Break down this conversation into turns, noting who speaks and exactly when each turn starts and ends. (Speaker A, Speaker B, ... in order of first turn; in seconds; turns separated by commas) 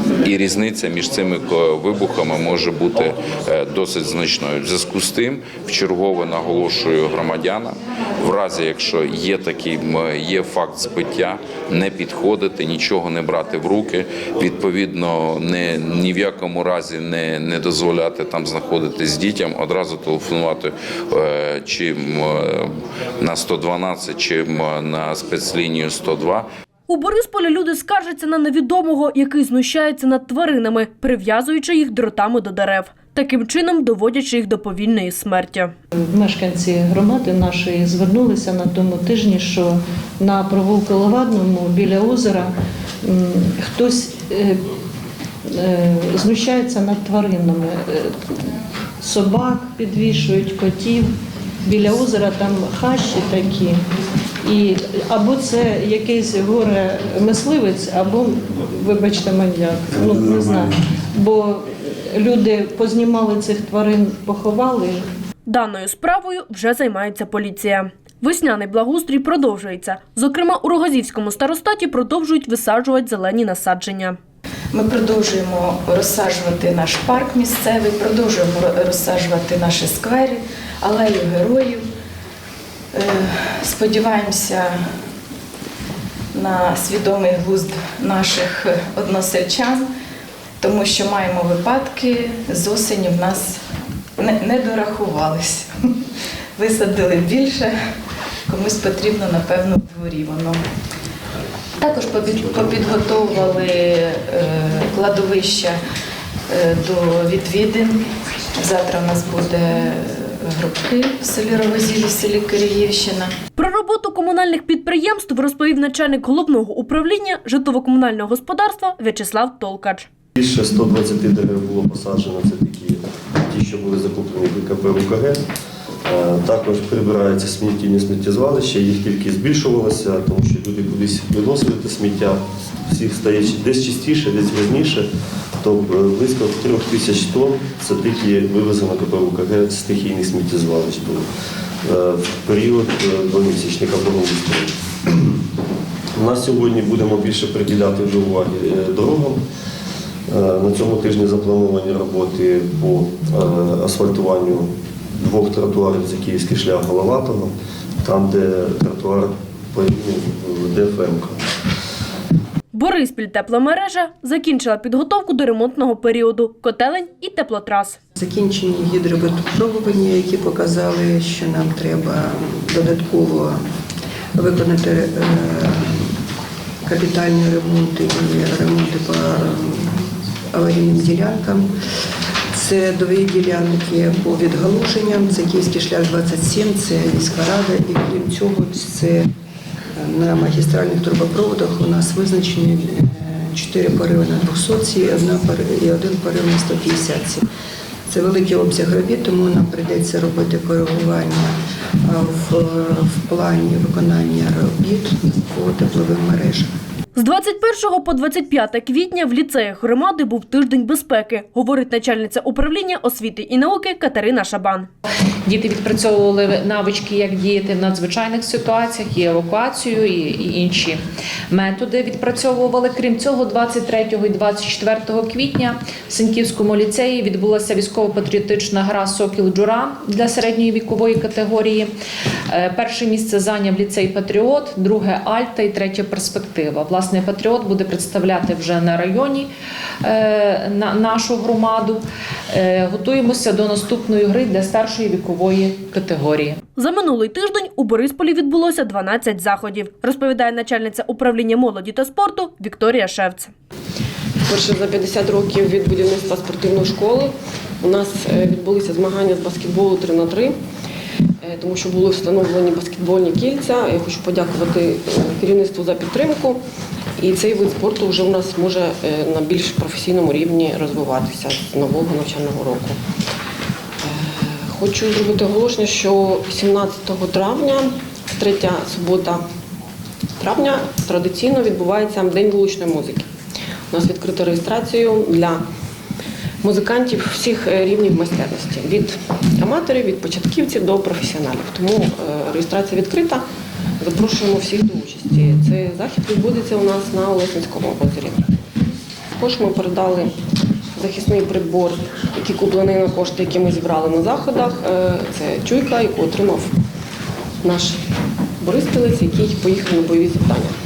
Speaker A: 0.2-26.5, Speaker B: 26.9-35.7, Speaker C: 36.0-44.6, Speaker C: 45.5-48.2, Speaker C: 49.0-53.8, Speaker C: 54.4-65.1, Speaker B: 65.5-74.2, Speaker D: 74.7-81.8, Speaker D: 82.9-84.8, Speaker D: 86.3-89.9, Speaker D: 90.6-93.6, Speaker D: 94.2-95.7, Speaker D: 96.6-97.7, Speaker D: 98.5-100.6, Speaker D: 101.8-105.8, Speaker D: 106.5-108.0, Speaker D: 108.5-113.3, Speaker B: 113.5-120.1, Speaker E: 120.3-125.4, Speaker E: 126.1-135.1, Speaker E: 135.6-141.2, Speaker E: 141.8-144.7, Speaker E: 146.2-149.4, Speaker E: 150.3-157.5, Speaker E: 158.0-161.4, Speaker B: 162.7-168.0, Speaker F: 168.2-173.6, Speaker F: 174.3-176.1, Speaker F: 176.8-179.9, Speaker F: 180.5-181.7, Speaker F: 182.5-189.3, Speaker F: 189.9-197.4, Speaker F: 198.1-206.7, Speaker B: 207.1-214.9, Speaker G: 215.4-231.9, Speaker G: 232.5-239.5, Speaker G: 240.0-246.6, Speaker B: 246.8-253.5, Speaker H: 254.5-260.5, Speaker H: 261.4-266.6, Speaker H: 267.2-273.0, Speaker H: 274.0-279.4, Speaker H: 280.4-283.3, Speaker H: 283.9-285.6, Speaker H: 286.6-293.4, Speaker H: 294.0-298.4, Speaker H: 299.4-300.3, Speaker H: 300.9-306.7, Speaker H: 307.6-308.0, Speaker H: 308.6-310.7